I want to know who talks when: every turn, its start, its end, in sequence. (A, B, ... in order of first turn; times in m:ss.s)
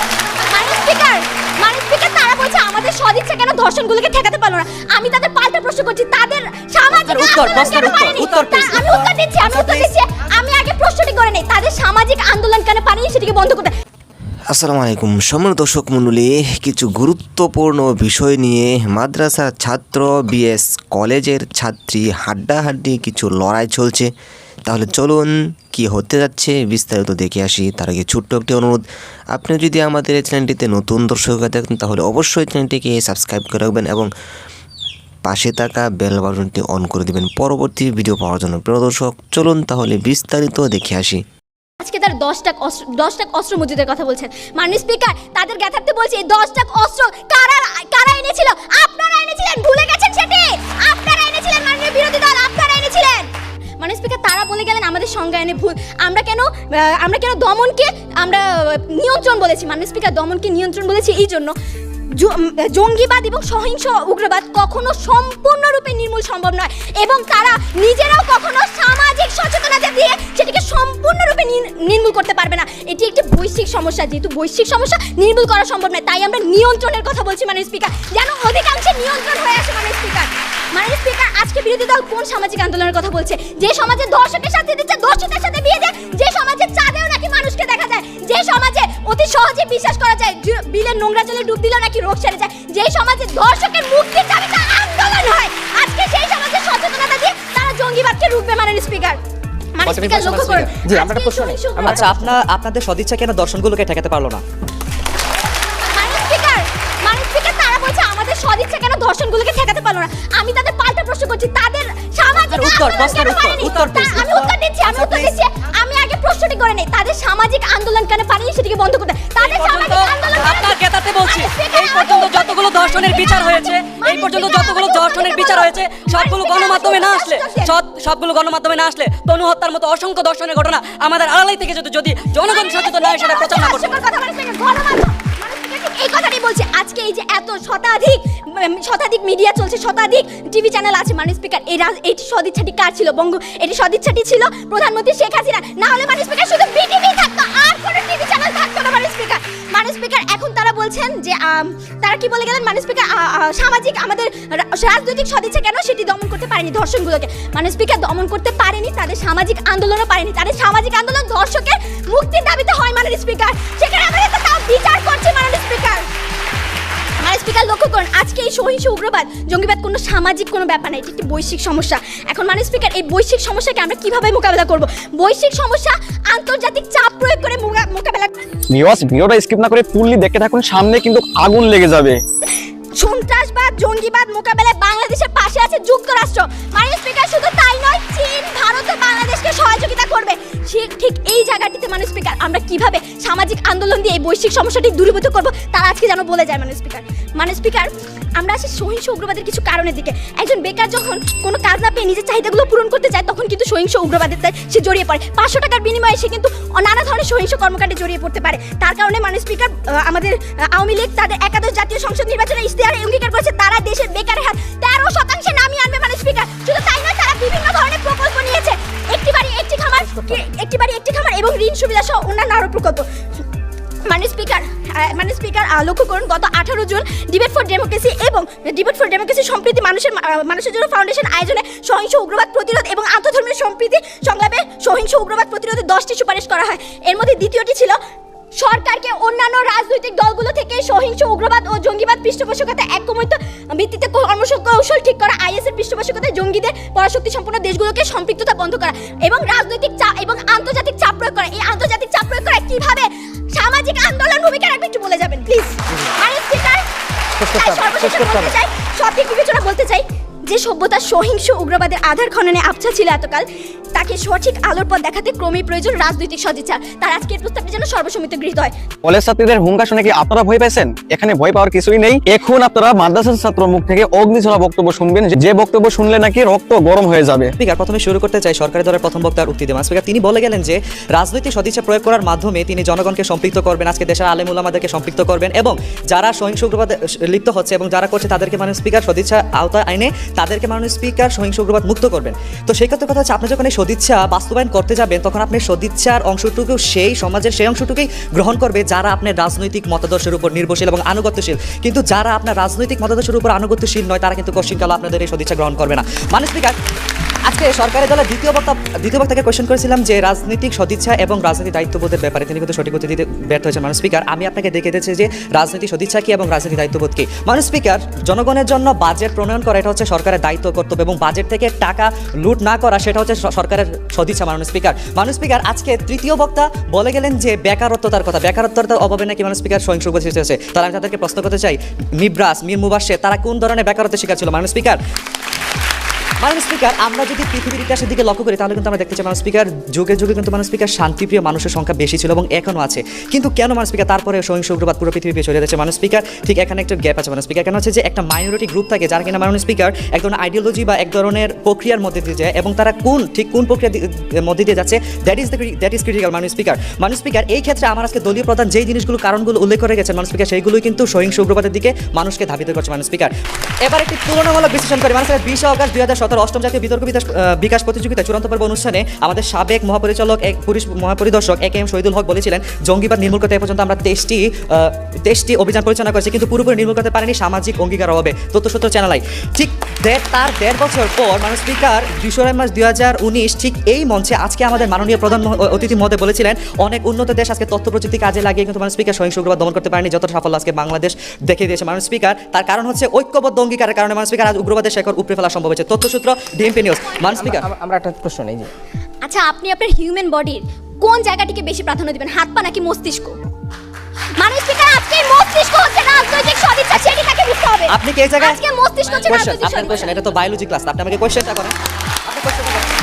0:00.5-0:13.7 A
0:07.0-0:09.9 B
0:14.5-0:24.1 C
0:24.7-0:34.1 C
0:35.3-0:41.2 C
0:41.8-1:01.5 A
1:02.2-1:39.2 A
1:39.8-1:42.1 A
1:39.8-1:40.8 B
1:40.8-1:42.3 D
1:41.8-1:44.4 B
1:45.9-2:07.8 A
1:52.4-1:55.3 B
1:59.4-2:14.0 E
2:12.4-2:46.1 A
2:47.2-2:58.4 A
2:58.7-3:02.2 F
3:03.0-3:43.1 A
3:44.1-3:58.0 A
3:58.6-4:16.9 A
4:17.4-4:18.5 B
4:17.6-4:28.8 A
4:29.0-4:37.5 F
4:37.6-5:06.8 B
5:07.5-5:35.0 B
5:36.4-6:03.3 B
6:03.9-6:37.7 B
6:24.7-6:26.1 A
6:37.2-6:38.7 D
6:39.2-6:43.4 A
6:44.4-6:50.2 A
6:47.9-6:51.8 B
6:52.3-6:52.8 B